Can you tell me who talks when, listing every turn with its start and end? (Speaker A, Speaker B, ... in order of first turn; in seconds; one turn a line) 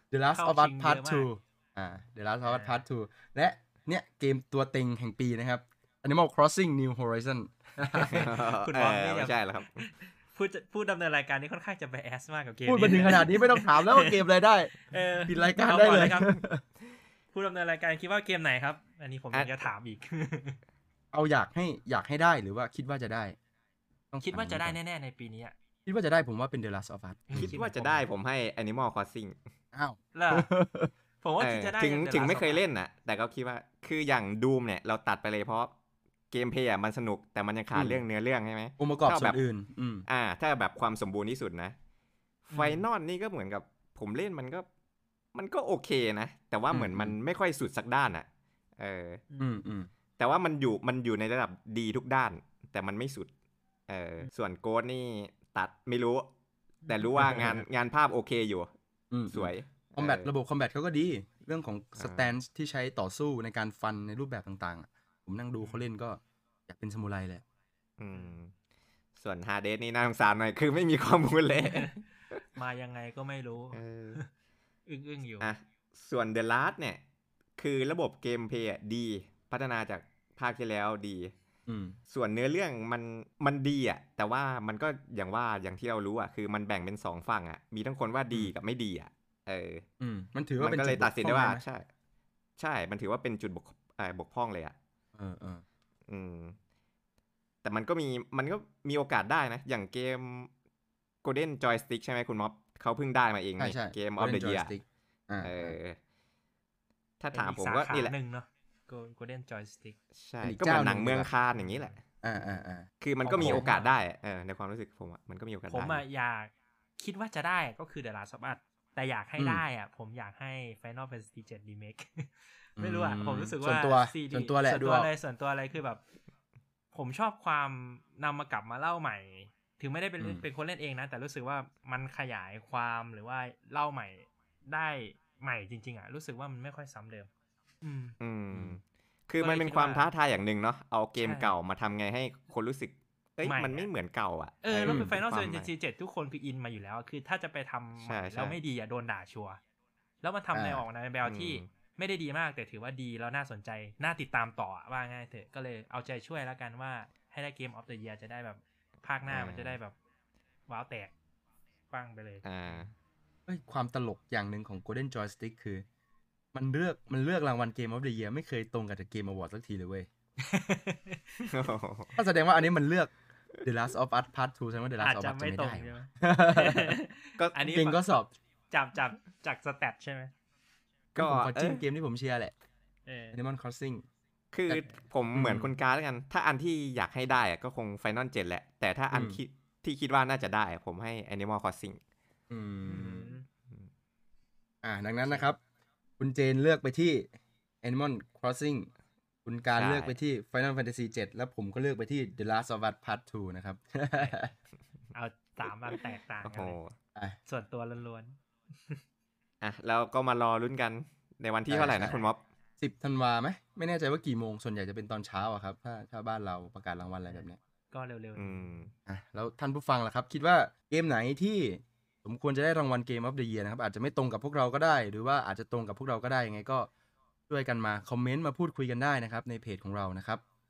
Speaker A: 0.1-8.3
Speaker B: 0.3-1.3
Speaker B: 2.4-2.8
Speaker B: 7.9-14.2
Speaker C: 8.1-9.9
Speaker A: 12.7-16.6
Speaker B: 14.8-16.3
Speaker B: 17.3-20.6
Speaker C: 19.3-19.6
Speaker A: 21.1-23.4
Speaker A: 24.1-24.8
Speaker B: 24.2-25.5
Speaker A: 25.9-27.6
Speaker B: 27.3-28.1
Speaker C: 27.3-29.4
Speaker A: 29.7-30.9
Speaker B: 30.1-30.5
Speaker B: 31.2-32.6
Speaker C: 31.4-35.7
Speaker C: 36.3-39.4
Speaker A: 37.7-38.0
Speaker A: 38.8-40.0
Speaker C: 40.1-41.8
Speaker C: 42.5-44.6
Speaker B: 42.5-42.9
Speaker C: 45.3-48.3
Speaker A: 46.7-47.1
Speaker C: 48.8-49.2
Speaker A: 49.4-49.9
Speaker C: 50.2-53.3
Speaker C: 53.9-56.3
Speaker B: 56.8-57.4
Speaker C: 56.9-58.7
Speaker A: 57.2-57.6
Speaker A: 59.1-67.4
Speaker C: 59.3-60.3
Speaker C: 62.0-62.3
Speaker B: 65.6-65.8
Speaker C: 68.0-68.5
Speaker C: 69.2-72.4
Speaker B: 71.5-74.3
Speaker C: 73.7-74.2
Speaker B: 74.9-75.5
Speaker C: 75.4-77.0
Speaker C: 77.6-81.3
Speaker A: 81.7-82.0
Speaker C: 82.1-89.8
Speaker A: 90.0-91.6
Speaker C: 90.6-91.9
Speaker C: 92.6-94.7
Speaker A: 95.1-95.6
Speaker C: 96.1-96.6
Speaker C: 97.6-100.5
Speaker C: 101.2-104.7
Speaker A: 103.6-105.8
Speaker C: 105.4-106.0
Speaker C: 107.2-108.1
Speaker B: 107.3-110.0
Speaker C: 110.1-112.0
Speaker A: 110.4-111.3
Speaker B: 111.5-112.0
Speaker A: 112.2-112.9
Speaker C: 113.0-116.0
Speaker B: 113.2-114.0
Speaker A: 113.4-113.6
Speaker B: 115.7-126.0
Speaker A: 119.4-119.6
Speaker A: 122.8-125.1
Speaker B: 126.9-137.3
Speaker A: 130.2-130.4
Speaker B: 137.8-138.2
Speaker C: 138.2-145.7
Speaker B: 139.4-140.1
Speaker B: 141.2-141.5
Speaker B: 143.4-143.9
Speaker B: 144.6-149.6
Speaker A: 144.8-145.2
Speaker C: 147.9-148.6
Speaker B: 150.2-159.9
Speaker A: 150.5-150.8
Speaker C: 151.2-151.6
Speaker C: 159.3-159.8
Speaker B: 160.7-161.1
Speaker B: 161.9-162.9
Speaker C: 162.4-162.9
Speaker A: 163.5-165.8
Speaker A: 166.5-170.1
Speaker B: 170.4-171.5
Speaker C: 171.4-172.2
Speaker A: 172.2-177.0
Speaker B: 175.0-178.0
Speaker C: 177.4-177.7
Speaker A: 177.7-178.3
Speaker B: 178.7-180.3
Speaker A: 181.1-182.5
Speaker C: 181.2-181.8
Speaker B: 183.1-183.4
Speaker A: 183.3-184.0
Speaker C: 184.5-192.0
Speaker B: 184.7-185.0
Speaker A: 185.3-185.7
Speaker A: 189.1-189.4
Speaker A: 192.5-193.3
Speaker B: 192.8-193.5
Speaker A: 194.8-195.6
Speaker A: 196.2-197.3
Speaker A: 197.8-198.9
Speaker A: 199.4-204.5
Speaker C: 199.7-200.2
Speaker B: 205.1-206.8
Speaker C: 206.4-206.9
Speaker B: 207.5-209.0
Speaker C: 209.6-212.4
Speaker A: 211.7-212.2
Speaker B: 212.0-212.3
Speaker A: 212.8-217.6
Speaker B: 217.3-218.9
Speaker C: 218.4-218.9
Speaker A: 219.1-226.9
Speaker A: 227.5-230.4